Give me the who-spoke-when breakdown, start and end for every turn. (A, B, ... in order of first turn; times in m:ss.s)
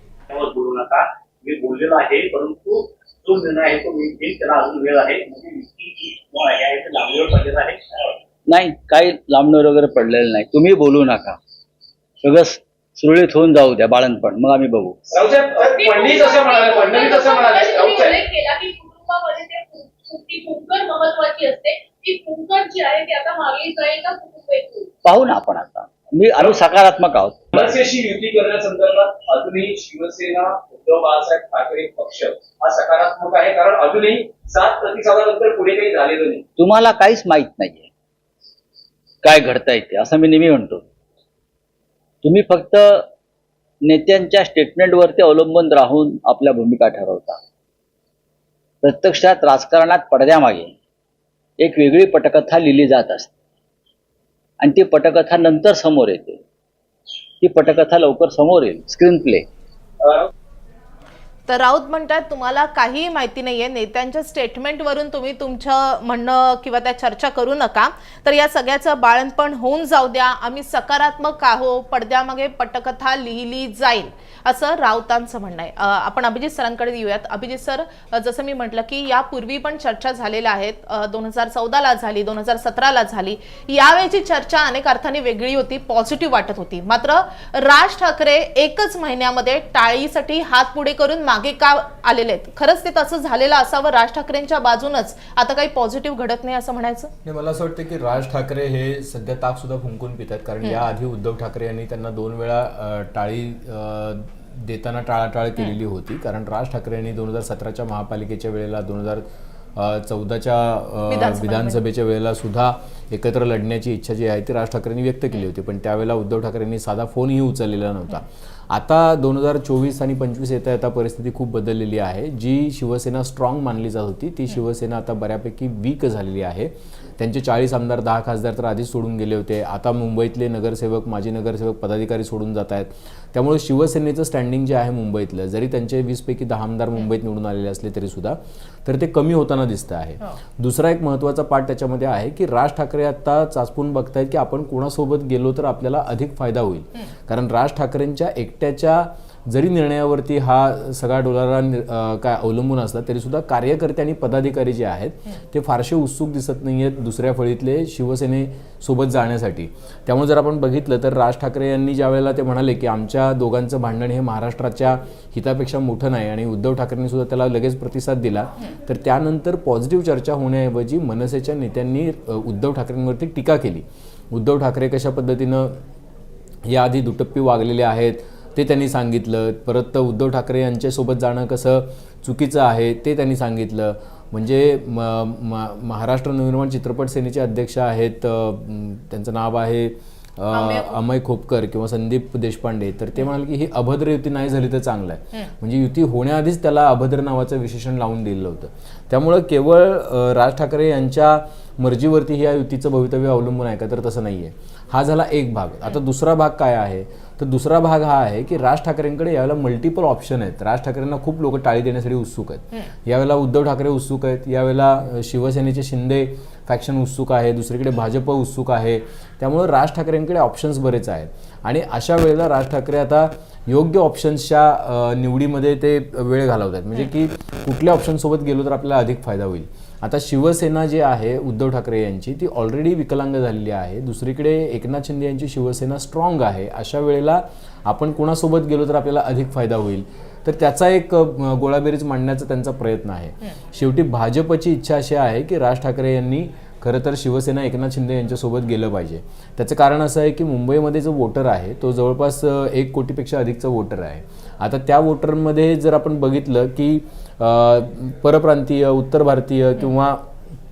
0:00.3-0:08.0 A
0:08.5-0:11.4 B
0:12.2-0:15.0 B
0:15.1-0:18.1 C
0:15.6-0:24.9 D
0:15.8-0:16.8 A
0:25.0-0:27.7 B
0:27.5-0:36.4 C
0:36.6-0:37.9 B
0:39.2-0:40.8 B
0:42.2-0:43.1 B
0:43.8-0:47.4 B
0:48.8-0:50.7 B
0:51.6-0:53.3 B
0:54.6-0:56.4 B
0:57.4-0:59.5 B
1:01.5-1:37.1 E
1:37.2-2:55.8 F
1:51.1-1:51.8 E
2:56.6-4:20.3 F
3:10.5-3:10.9 E